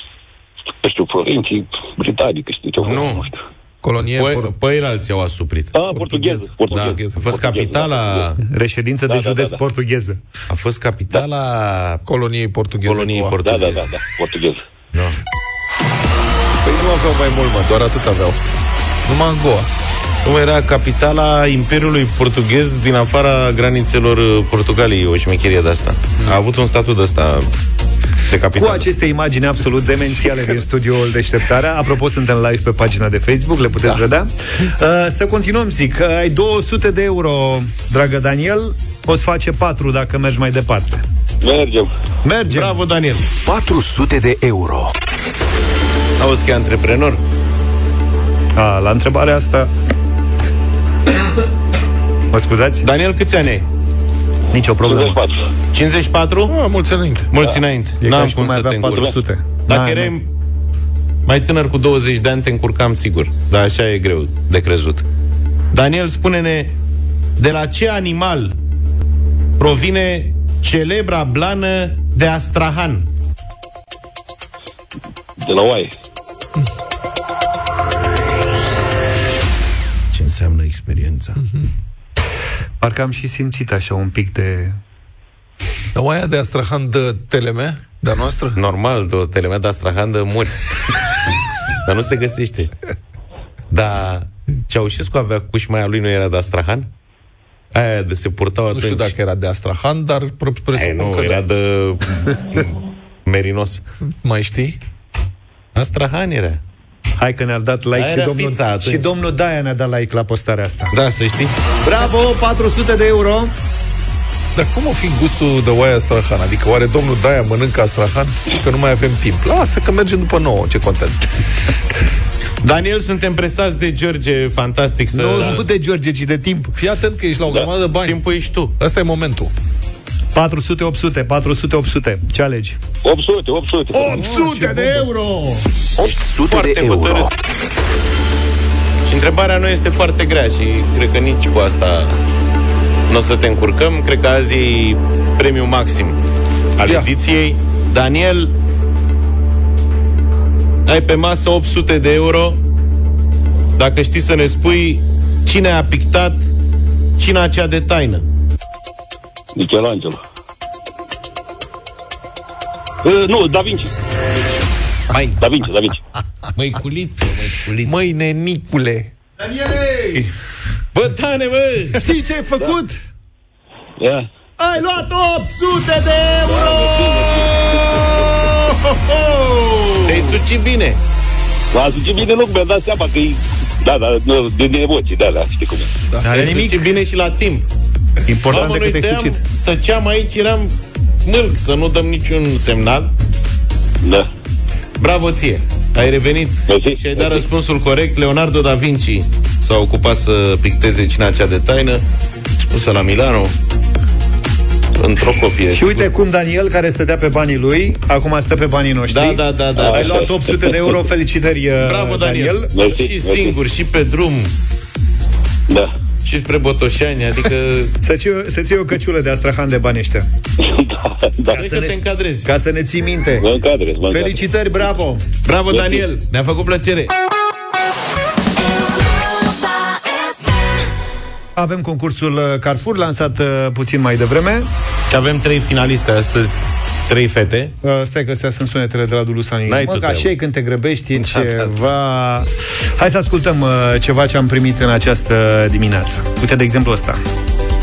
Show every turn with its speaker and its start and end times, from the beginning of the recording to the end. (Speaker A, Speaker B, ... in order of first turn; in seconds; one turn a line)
Speaker A: 0.8-3.4
Speaker B: 2.8-3.3
Speaker C: 3.8-4.5
Speaker B: 4.1-5.8
Speaker A: 5.7-8.3
Speaker C: 5.9-7.4
Speaker B: 6.7-8.4
Speaker D: 8.4-10.2
Speaker A: 9.1-9.6
Speaker B: 10.5-12.0
Speaker C: 12.1-13.4
Speaker B: 12.8-13.9
Speaker A: 13.4-14.6
Speaker C: 16.6-18.4
Speaker C: 19.0-19.7
Speaker B: 20.2-27.5
Speaker B: 28.3-28.9
Speaker D: 28.6-41.0
Speaker A: 41.4-41.9
Speaker D: 42.2-42.8
Speaker B: 42.5-43.3
Speaker E: 43.4-44.9
Speaker B: 46.2-47.2
Speaker D: 48.5-49.7
Speaker D: 52.3-52.9
Speaker B: 52.8-53.7
Speaker D: 54.5-55.2
Speaker A: 54.9-55.5
Speaker B: 55.7-56.5
Speaker C: 56.5-57.3
Speaker B: 57.3-59.1
Speaker D: 58.0-60.1
Speaker B: 59.7-60.3
Speaker B: 61.2-65.0
Speaker B: 65.7-66.7
Speaker B: 67.4-68.5
Speaker B: 69.6-73.1
Speaker A: 75.4-75.9
Speaker B: 80.1-81.4
Speaker D: 82.8-84.8
Speaker C: 85.9-88.6
Speaker B: 88.5-90.6
Speaker B: 91.8-92.7
Speaker B: 93.7-96.9
Speaker B: 97.7-99.1
Speaker C: 98.7-101.4
Speaker B: 100.7-102.7
Speaker B: 103.2-103.8
Speaker C: 104.0-104.8
Speaker B: 105.7-106.6
Speaker D: 107.2-110.9
Speaker B: 107.9-109.1
Speaker B: 110.9-111.5
Speaker D: 111.8-113.5
Speaker C: 114.5-121.4
Speaker B: 122.6-125.6
Speaker D: 125.1-126.7
Speaker C: 126.8-128.2
Speaker B: 128.0-128.7
Speaker C: 128.8-129.5
Speaker D: 130.3-132.8
Speaker A: 133.0-134.1
Speaker D: 133.9-135.4
Speaker C: 134.1-134.9
Speaker E: 136.0-137.3
Speaker B: 136.4-137.3
Speaker B: 139.0-142.2
Speaker B: 143.1-146.2
Speaker B: 146.8-148.5
Speaker C: 146.8-147.1
Speaker B: 150.8-152.6
Speaker B: 153.8-156.5
Speaker B: 157.2-158.2
Speaker A: 159.5-160.2
Speaker A: 163.0-163.9
Speaker B: 165.1-165.4
Speaker A: 165.4-166.0
Speaker B: 166.5-167.9
Speaker C: 167.8-169.1
Speaker D: 169.4-170.3
Speaker B: 170.9-172.0
Speaker D: 172.0-173.0
Speaker A: 174.0-174.3
Speaker D: 174.6-180.4
Speaker A: 176.4-178.0
Speaker B: 180.0-181.0
Speaker A: 181.7-185.9
Speaker C: 186.1-186.4
Speaker D: 186.2-186.8
Speaker B: 186.3-187.7
Speaker D: 188.3-189.4
Speaker B: 188.5-190.7
Speaker B: 191.2-193.1
Speaker A: 194.0-194.3
Speaker B: 195.0-202.0
Speaker A: 196.7-197.4
Speaker B: 202.6-203.5
Speaker B: 205.0-206.1
Speaker D: 205.7-212.7
Speaker B: 209.1-210.3
Speaker A: 209.8-210.2
Speaker B: 211.8-214.5
Speaker A: 212.7-213.6
Speaker B: 216.2-217.9
Speaker D: 218.0-220.3
Speaker A: 220.6-221.7
Speaker D: 221.5-223.5
Speaker B: 221.6-222.5
Speaker A: 223.4-224.4
Speaker D: 224.1-225.2
Speaker B: 225.4-227.1
Speaker A: 225.7-226.0
Speaker D: 231.6-234.7
Speaker B: 235.1-237.7
Speaker D: 237.8-247.2
Speaker B: 239.7-240.3
Speaker B: 241.1-241.7